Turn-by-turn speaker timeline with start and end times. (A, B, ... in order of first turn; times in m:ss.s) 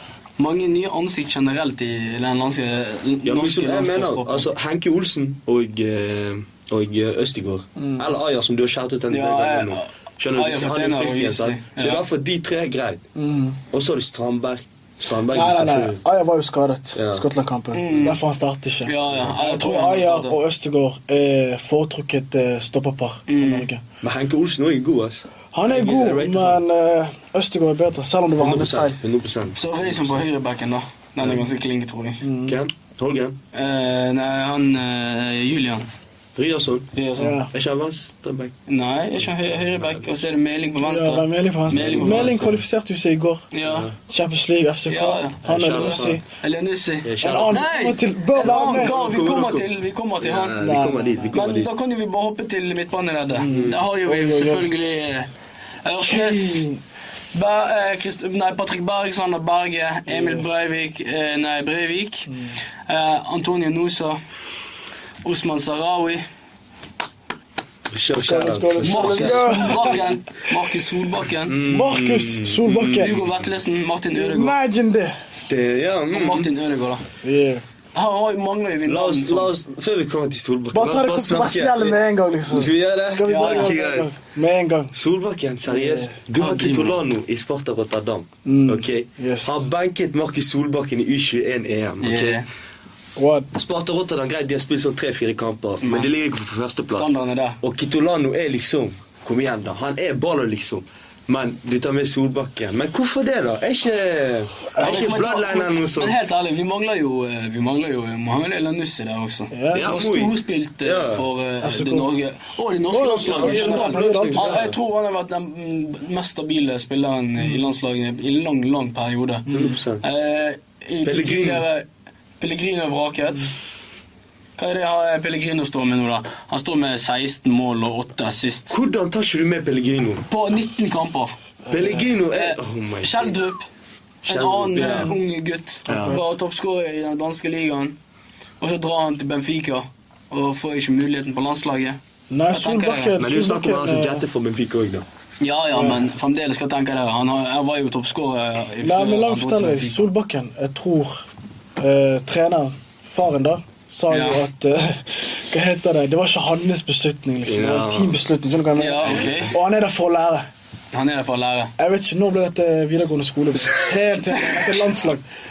0:00.4-0:04.5 A
0:03.2-0:13.0 B
0:07.8-0:08.0 C
0:09.1-0:12.0 A
0:13.2-0:13.6 C
0:13.7-0:16.0 B
0:15.3-0:23.8 C
0:17.0-0:17.2 B
0:17.7-0:18.2 A
0:18.8-0:20.4 A
0:23.3-0:23.7 A
0:24.0-0:26.6 B
0:25.5-0:29.0 C
0:28.4-0:30.2 B
0:29.5-0:32.2 A
0:32.2-0:32.6 C
0:32.4-0:33.4 B
0:33.5-0:35.9 A
0:36.3-0:36.9 B
0:36.9-0:37.4 A
0:37.2-0:37.5 C
0:37.5-0:38.5 B
0:38.7-0:42.6 A
0:39.3-0:40.0 B
0:40.8-0:43.4 C
0:41.7-0:42.5 B
0:43.5-0:43.9 A
0:43.7-0:43.9 B
0:44.0-0:46.2 C
0:44.9-0:50.6 A
0:45.4-0:46.2 B
0:47.0-0:47.6 B
0:47.2-0:49.0 C
0:48.4-0:49.7 B
0:50.2-0:51.7 B
0:50.5-0:51.4 C
0:51.3-0:55.3 A
0:53.4-0:54.7 C
0:53.5-0:53.8 B
0:55.8-0:56.7 A
0:56.0-0:56.8 C
0:57.3-1:02.3 A
1:02.8-1:04.2 A
1:05.2-1:06.2 A
1:07.9-1:10.1 B
1:08.2-1:10.0 C
1:08.8-1:11.6 A
1:11.4-1:13.3 B
1:11.6-1:13.2 C
1:12.9-1:14.6 A
1:14.1-1:15.2 C
1:15.3-1:16.5 B
1:16.1-1:17.0 A
1:17.2-1:17.6 C
1:17.9-1:19.5 A
1:18.8-1:24.1 B
1:20.7-1:24.9 C
1:23.2-1:23.7 A
1:24.9-1:32.4 B
1:25.7-1:26.1 C
1:26.4-1:27.0 A
1:28.4-1:29.6 C
1:32.0-1:32.4 A
1:33.2-1:33.5 C
1:33.5-1:46.2 B
1:35.8-1:36.1 A
1:36.9-1:37.6 A
1:44.7-1:45.1 C
1:44.8-1:59.5 A
1:49.5-1:49.9 C
1:49.7-1:51.2 B
1:51.6-1:52.1 C
1:52.9-1:54.7 C
1:53.2-1:54.8 B
1:59.5-1:59.8 C
1:59.5-2:00.0 B
2:00.0-2:01.9 A
2:01.0-2:01.6 B
2:02.4-2:03.5 A
2:04.6-2:08.8 A
2:08.7-2:10.2 B
2:10.3-2:11.3 A
2:11.6-2:12.1 C
2:11.7-2:13.4 B
2:12.3-2:13.6 A
2:14.2-2:15.2 B
2:14.2-2:18.0 A
2:15.9-2:16.2 B
2:15.9-2:16.2 C
2:18.6-2:22.0 A
2:22.3-2:24.2 C
2:22.5-2:23.2 A
2:23.2-2:25.0 B
2:25.4-2:30.0 A
2:25.7-2:26.0 C
2:28.8-2:31.2 C
2:31.8-2:40.5 C
2:34.1-2:34.4 A
2:37.4-2:38.2 B
2:38.8-2:39.5 A
2:39.0-2:39.5 B
2:40.9-2:41.7 A
2:41.8-2:45.2 C
2:44.4-2:44.6 A